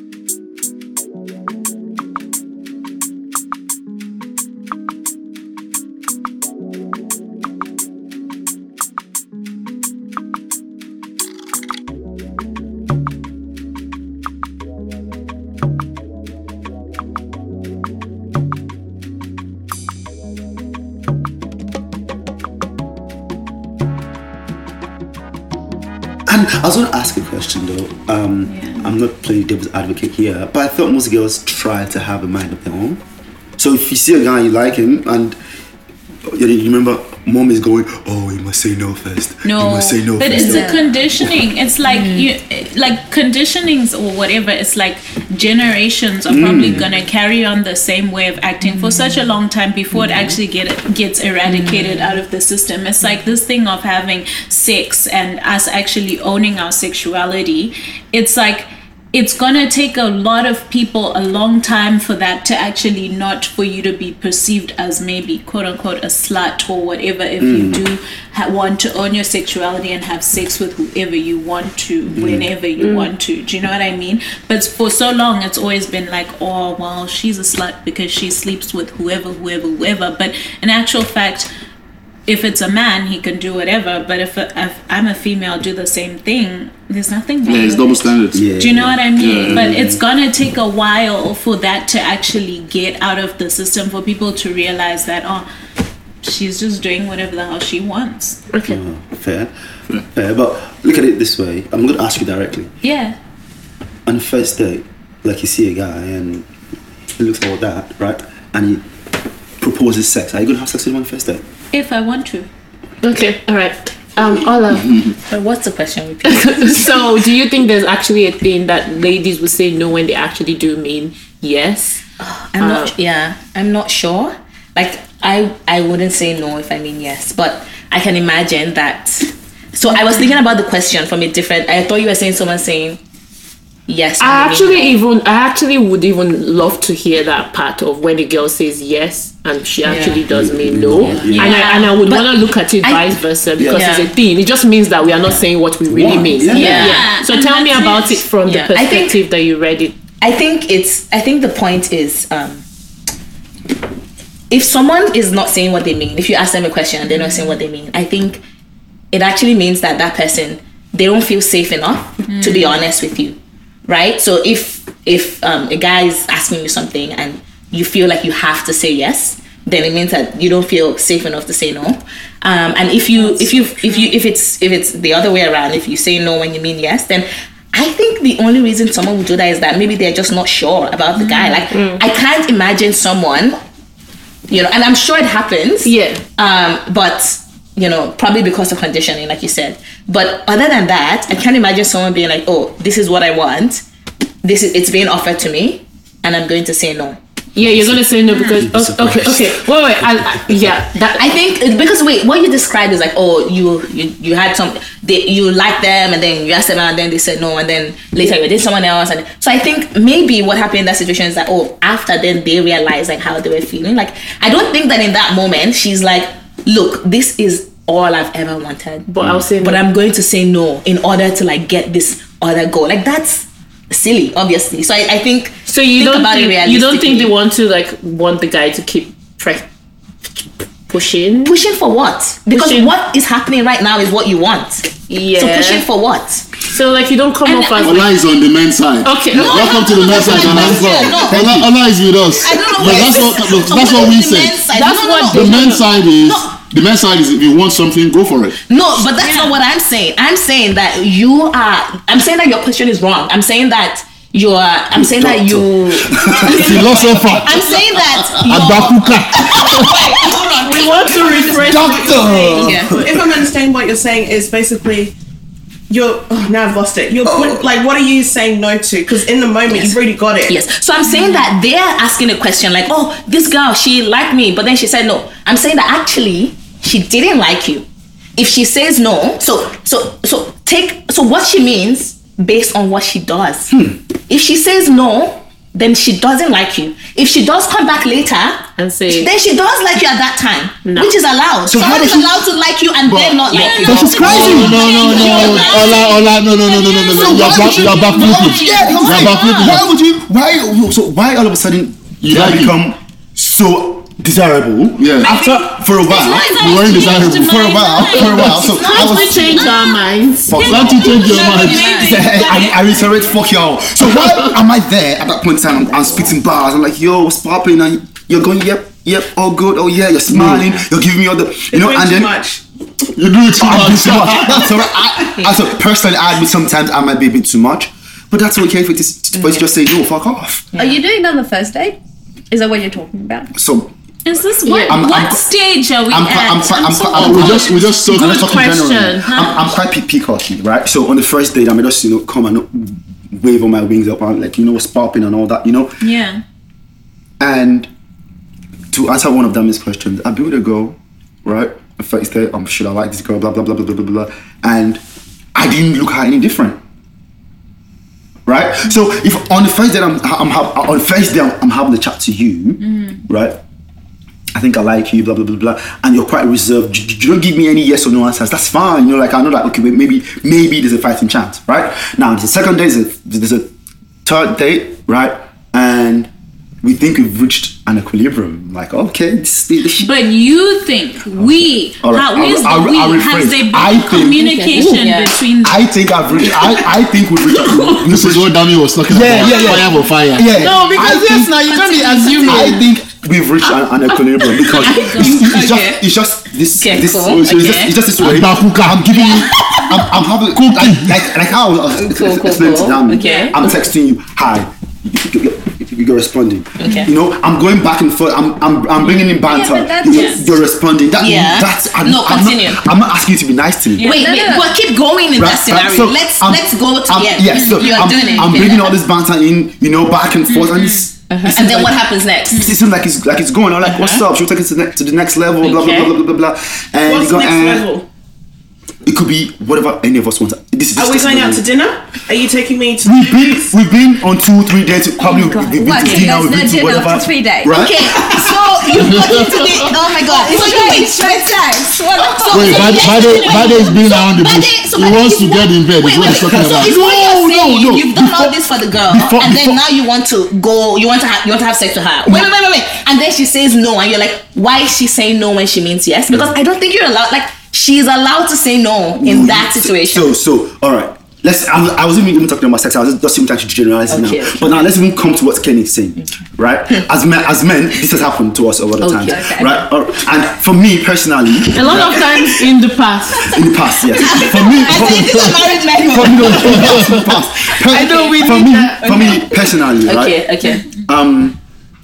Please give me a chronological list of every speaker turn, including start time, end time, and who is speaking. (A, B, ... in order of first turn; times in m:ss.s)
0:26.2-0:33.0 A
0:33.6-0:35.4 A
0:36.3-0:40.7 A
0:39.4-1:21.5 B
0:40.4-0:40.9 C
0:42.0-0:42.3 D
0:46.3-0:46.9 A
0:51.5-0:52.1 D
1:07.4-1:07.8 A
1:12.1-1:12.5 A
1:12.8-1:13.1 E
1:22.3-1:35.4 B
1:27.4-1:28.5 F
1:28.3-1:30.0 A
1:29.2-1:29.7 F
1:36.2-1:38.4 B
1:38.5-1:38.8 E
1:38.6-1:39.5 A
1:40.1-1:42.7 A
1:42.8-1:43.2 B
1:44.0-1:46.5 A
1:47.2-1:48.8 A
1:49.6-1:51.4 A
1:51.7-1:52.5 B
1:53.0-1:54.9 E
1:55.3-1:57.1 D
1:56.2-2:02.0 E
2:02.2-2:13.0 D
2:02.6-2:02.9 E
2:13.9-2:15.0 D
2:14.2-2:30.0 E
2:19.8-2:20.2 D
2:20.3-2:21.5 A
2:21.1-2:24.1 D
2:21.2-2:22.0 B
2:25.9-2:26.9 A
2:26.4-2:27.1 D
2:26.6-2:28.3 B
2:28.4-2:29.2 D
2:30.2-2:32.6 D
2:34.5-2:38.4 D
2:37.1-2:37.6 B
2:39.1-2:43.4 D
2:42.3-2:42.8 B
2:43.9-3:03.6 D
2:53.2-2:54.1 B
3:01.2-3:01.6 B
3:01.7-3:02.0 E
3:04.5-3:13.8 D
3:05.8-3:06.2 E
3:14.4-3:18.0 D
3:17.5-3:21.3 E
3:18.3-3:18.6 B
3:18.5-3:19.6 A
3:21.1-3:47.3 D
3:39.1-3:39.8 E
3:45.6-3:49.7 E
3:50.4-3:51.6 E
3:51.4-3:56.4 D
3:52.5-3:52.9 E
3:55.1-3:55.8 E
3:56.6-3:58.1 E
3:57.4-3:58.1 D
3:57.8-4:04.7 F
3:59.0-4:00.8 E
3:59.3-4:01.6 D
4:00.1-4:01.7 A
4:02.2-4:06.6 D
4:04.7-4:05.8 E
4:05.2-4:08.6 F
4:08.7-4:20.2 D
4:14.9-4:17.6 A
4:16.5-4:17.2 G
4:16.5-4:19.9 F
4:19.6-4:25.1 G
4:20.6-4:22.5 E
4:21.5-4:23.4 A
4:22.5-4:23.0 D
4:25.9-4:30.6 G
4:27.2-4:27.6 A
4:29.7-4:37.8 D
4:38.4-4:43.8 D
4:43.7-4:44.0 A
4:44.3-4:56.2 D
4:48.8-4:49.3 E
4:50.8-4:51.2 E
4:51.7-4:52.5 A
4:53.0-4:55.4 A
4:53.5-4:59.3 B
4:54.1-4:59.9 F
4:57.1-5:09.7 A
4:57.4-4:58.0 D
4:59.0-4:59.8 D
5:02.2-5:02.8 F
5:05.0-5:05.3 F
5:05.2-5:10.0 B
5:06.6-5:07.6 F
5:08.1-5:10.6 E
5:08.6-5:09.8 D
5:10.5-5:11.4 A
5:10.5-5:13.4 B
5:10.6-5:12.0 F
5:11.2-5:12.5 D
5:12.0-5:22.3 A
5:20.3-5:20.6 F
5:21.7-5:22.6 G
5:23.2-5:24.8 F
5:23.5-5:30.7 A
5:25.4-5:25.6 D
5:29.3-5:29.6 D
5:30.8-5:32.0 C
5:32.5-5:33.5 C
5:33.5-5:33.9 A
5:34.2-5:38.0 B
5:34.6-5:35.0 E
5:34.8-5:35.5 A
5:36.1-5:46.0 A
5:37.1-5:38.4 F
5:38.1-5:39.5 E
5:46.0-5:46.4 B
5:47.4-5:47.9 A
5:48.9-5:55.0 A
5:55.5-5:56.8 A
5:58.4-6:03.6 A
6:02.8-6:03.2 B
6:04.5-6:13.7 A
6:14.2-6:16.3 A
6:16.8-6:20.1 A
6:20.0-6:25.9 B
6:21.3-6:24.4 A
6:24.2-6:25.0 E
6:24.8-6:25.4 D
6:25.6-6:31.7 A
6:27.9-6:30.5 F
6:30.5-6:32.8 E
6:32.0-6:32.7 B
6:32.4-6:54.1 A
6:34.5-6:35.6 B
6:34.8-6:36.0 D
6:36.8-6:38.0 D
6:38.2-6:39.2 F
6:39.2-6:40.0 D
6:40.5-6:41.2 F
6:41.9-6:43.7 D
6:43.1-6:43.5 B
6:46.8-6:47.1 D
6:49.4-6:50.6 C
6:50.1-6:50.4 B
6:51.2-6:52.8 D
6:54.0-6:54.4 B
6:54.0-6:59.0 D
6:54.0-6:54.7 C
6:55.4-7:07.9 A
6:57.5-6:58.8 B
7:00.5-7:01.1 B
7:01.3-7:02.7 D
7:03.9-7:04.2 D
7:05.6-7:06.1 D
7:07.0-7:08.0 G
7:09.0-7:11.6 A
7:11.0-7:13.7 G
7:13.0-7:18.5 A
7:15.2-7:17.9 C
7:17.7-7:40.3 D
7:19.0-7:19.7 F
7:20.2-7:22.0 C
7:22.2-7:23.5 A
7:22.5-7:27.0 F
7:26.3-7:28.6 A
7:29.1-7:29.8 A
7:39.1-7:52.5 A
7:44.1-7:44.9 D
7:49.0-7:49.4 E
7:49.2-7:49.8 C
7:49.3-7:49.6 D
7:51.7-7:53.6 E
7:51.9-7:52.1 D
7:53.4-8:00.4 A
7:54.1-7:57.1 D
7:55.2-7:55.5 F
7:56.8-7:57.2 F
7:57.9-7:59.3 E
7:58.0-8:00.9 D
8:01.0-8:01.6 A